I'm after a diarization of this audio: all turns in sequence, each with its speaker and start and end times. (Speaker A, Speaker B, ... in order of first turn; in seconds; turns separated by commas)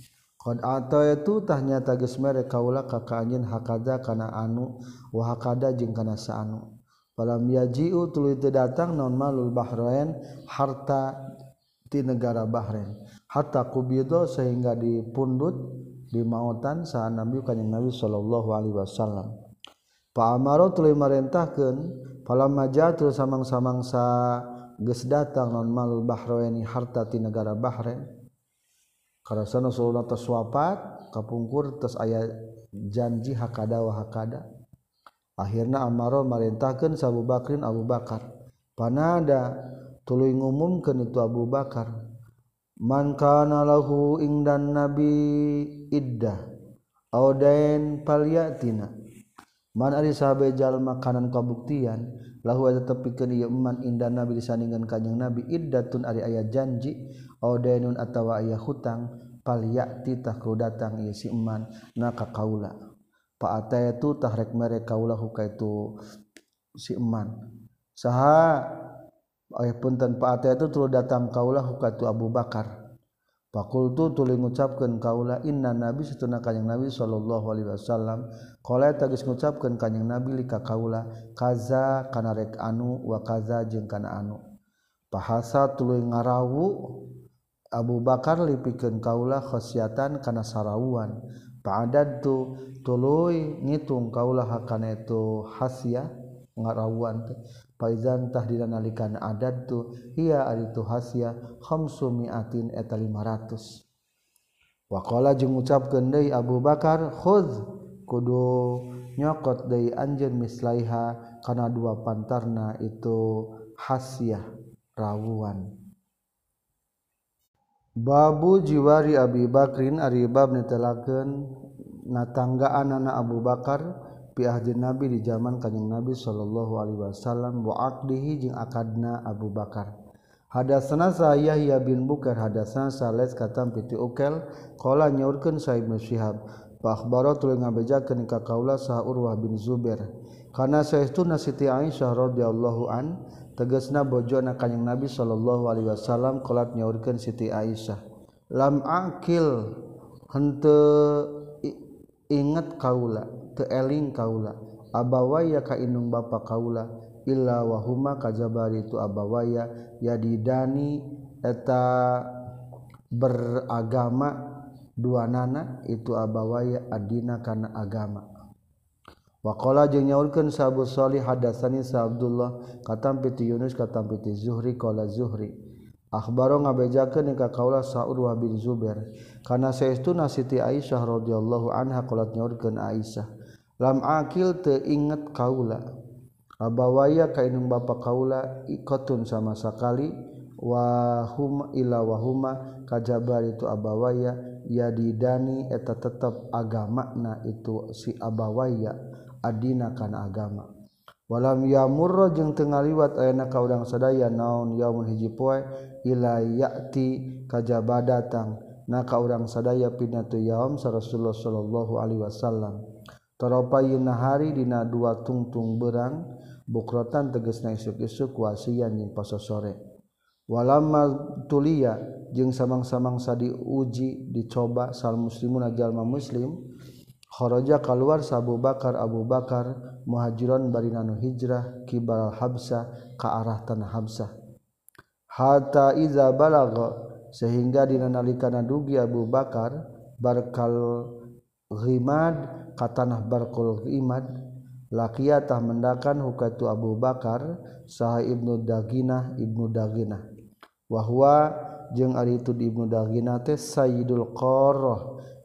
Speaker A: 0.4-6.7, Speaker A: 7.2-11.1, Speaker A: 11.9-19.3, Speaker A: 20.1-28.0, Speaker A: 29.3-32.3, Speaker A: 32.9-34.4, Speaker A: 35.4-38.2, Speaker A: 38.8-39.5, Speaker A: 40.1-41.9, Speaker A: 42.9-46.4, Speaker A: 47.1-48.9, Speaker A: 49.8-62.7, Speaker A: 63.4-65.7, Speaker A: 66.8-67.3, Speaker A: 68.0-68.6, Speaker A: 69.6-72.7, Speaker A: 73.5-84.4, Speaker A: 85.1-86.7, Speaker A: 87.8-91.1, Speaker A: 91.6-96.1, Speaker A: 96.6-103.7, Speaker A: 104.9-113.2, Speaker A: 113.8-114.4, Speaker A: 115.0-115.6, Speaker A: 118.0-121.4, Speaker A: 122.1-123.8, Speaker A: 124.3-129.9, Speaker A: 130.5-148.0, Speaker A: 148.6-149.6, Speaker A: 150.3-151.8, Speaker A: 152.3-162.3, Speaker A: 163.2-164.3, Speaker A: 165.0-168.2, Speaker A: 169.4-175.5, Speaker A: 176.2-183.3, Speaker A: 183.8-185.8, Speaker A: 186.6-190.1, Speaker A: 190.7-200.7, Speaker A: 201.3-212.8, Speaker A: 213.4-216.2, Speaker A: 216.7-219.8, Speaker A: 220.5-226.5, Speaker A: 227.4-234.3, Speaker A: 235.3-240.8, Speaker A: 241.8-244.3, Speaker A: 244.9-250.2, Speaker A: 250.9-255.0